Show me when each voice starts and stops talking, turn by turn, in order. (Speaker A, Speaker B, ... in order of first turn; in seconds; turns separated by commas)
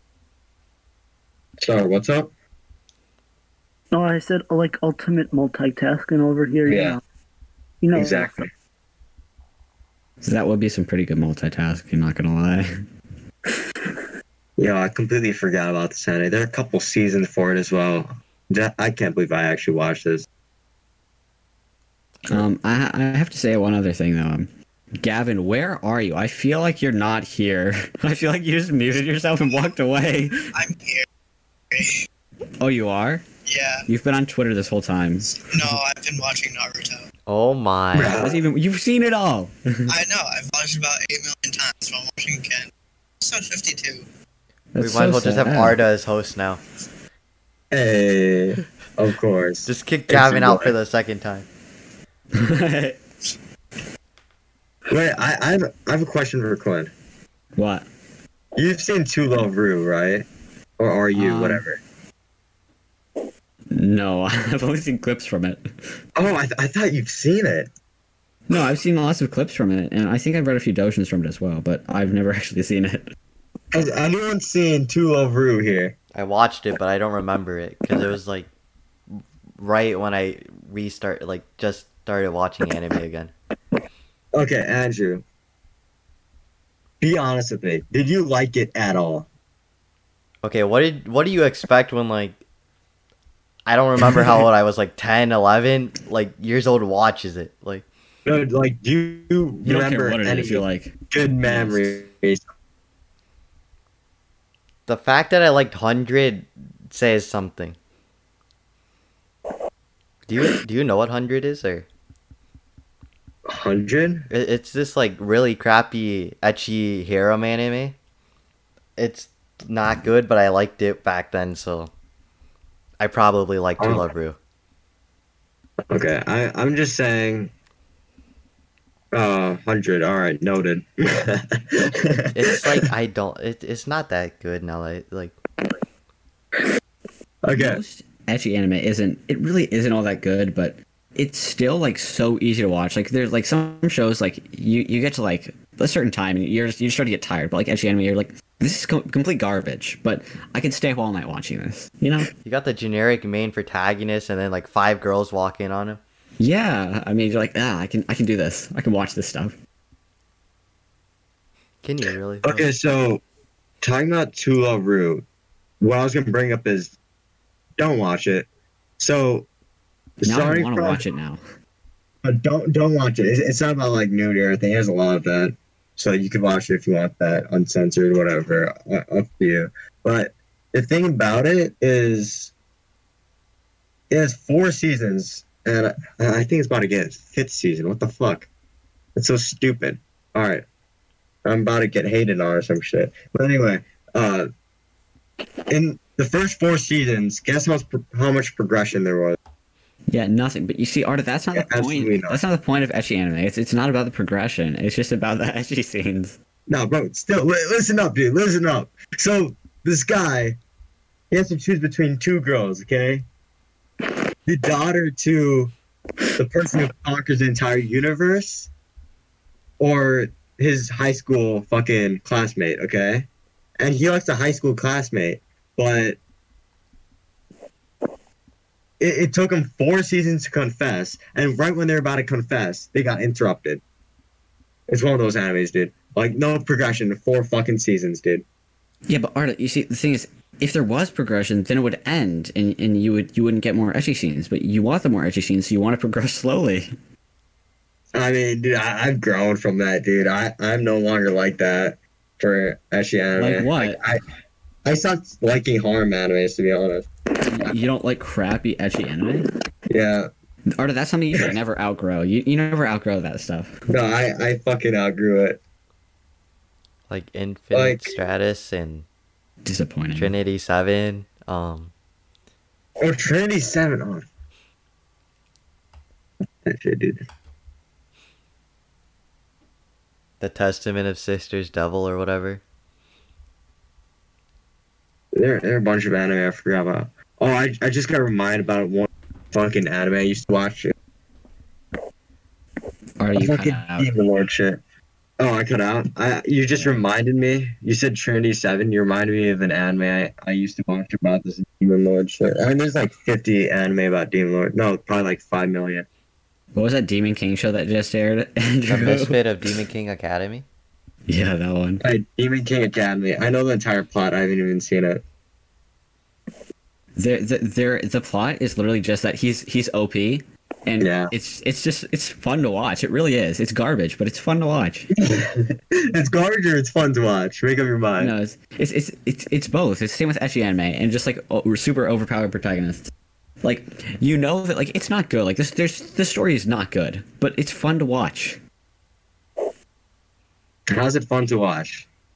Speaker A: 1.6-2.3, Speaker B: 3.9-7.0, Speaker A: 6.7-7.0, Speaker B: 7.8-8.4, Speaker A: 7.9-8.5, Speaker C: 10.2-12.7, Speaker A: 14.6-20.3, Speaker C: 22.3-30.4, Speaker D: 30.5-31.1, Speaker D: 31.7-32.1, Speaker C: 32.6-33.2, Speaker D: 33.5-33.9, Speaker C: 33.9-35.8, Speaker D: 35.4-37.0, Speaker E: 37.3-38.4, Speaker A: 37.9-38.4, Speaker C: 38.0-39.9, Speaker D: 39.9-42.7, Speaker D: 43.2-44.1, Speaker C: 44.7-45.8, Speaker E: 44.8-46.6, Speaker A: 47.7-50.8, Speaker E: 49.6-51.5, Speaker C: 52.3-53.0, Speaker A: 54.9-56.9, Speaker C: 57.5-57.9, Speaker A: 58.5-60.2, Speaker A: 60.8-61.8, Speaker C: 61.1-61.6, Speaker C: 63.7-65.6, Speaker A: 66.2-67.7, Speaker C: 68.5-73.1, Speaker A: 73.7-76.0, Speaker E: 76.1-78.5, Speaker E: 79.1-83.3, Speaker A: 84.3-85.2, Speaker A: 87.0-89.3, Speaker E: 90.4-92.4, Speaker E: 93.7-97.8, Speaker A: 98.2-102.4, Speaker C: 99.6-100.9, Speaker C: 101.4-102.0, Speaker E: 104.9-107.8, Speaker E: 110.3-111.8, Speaker A: 113.5-114.3, Speaker E: 114.3-118.0, Speaker E: 119.0-121.9, Speaker E: 123.0-124.4, Speaker A: 123.8-124.0, Speaker A: 125.9-127.5, Speaker A: 129.1-132.8, Speaker E: 132.3-135.3, Speaker A: 137.4-137.8, Speaker C: 137.5-152.3, Speaker E: 152.4-156.0, Speaker C: 156.4-159.6, Speaker E: 161.8-162.7, Speaker A: 162.4-163.2, Speaker A: 163.8-165.2, Speaker A: 165.8-166.9, Speaker A: 167.8-168.5, Speaker A: 169.0-169.5, Speaker A: 170.2-171.0, Speaker C: 170.2-171.4, Speaker A: 172.2-182.5, Speaker A: 184.1-188.5, Speaker A: 189.2-190.6, Speaker A: 191.4-194.5, Speaker A: 195.7-199.4, Speaker C: 200.1-206.4, Speaker A: 201.5-202.4, Speaker A: 206.7-210.6, Speaker A: 211.3-213.2, Speaker A: 214.4-215.7, Speaker A: 216.3-218.7, Speaker A: 219.8-223.3, Speaker A: 223.8-226.2, Speaker A: 229.0-233.8, Speaker A: 234.9-238.4, Speaker C: 239.1-246.9, Speaker A: 248.1-254.2, Speaker C: 253.3-254.0, Speaker A: 254.8-257.1, Speaker C: 257.4-259.5, Speaker A: 259.9-260.3, Speaker C: 260.7-263.8, Speaker A: 263.9-265.6, Speaker E: 267.1-269.1, Speaker A: 267.7-268.1, Speaker C: 269.6-270.3, Speaker E: 270.1-271.9, Speaker A: 273.0-274.2, Speaker A: 276.6-277.2, Speaker E: 280.4-282.6, Speaker A: 285.3-290.9, Speaker C: 293.2-294.1, Speaker A: 293.3-294.8, Speaker A: 295.4-306.1, Speaker C: 296.7-297.0, Speaker C: 306.7-309.7, Speaker E: 308.9-310.6, Speaker C: 311.3-312.0, Speaker A: 312.0-315.2, Speaker C: 317.1-325.1, Speaker A: 321.0-321.3, Speaker A: 325.2-328.3, Speaker C: 328.2-333.1, Speaker C: 333.6-338.6, Speaker A: 340.9-342.1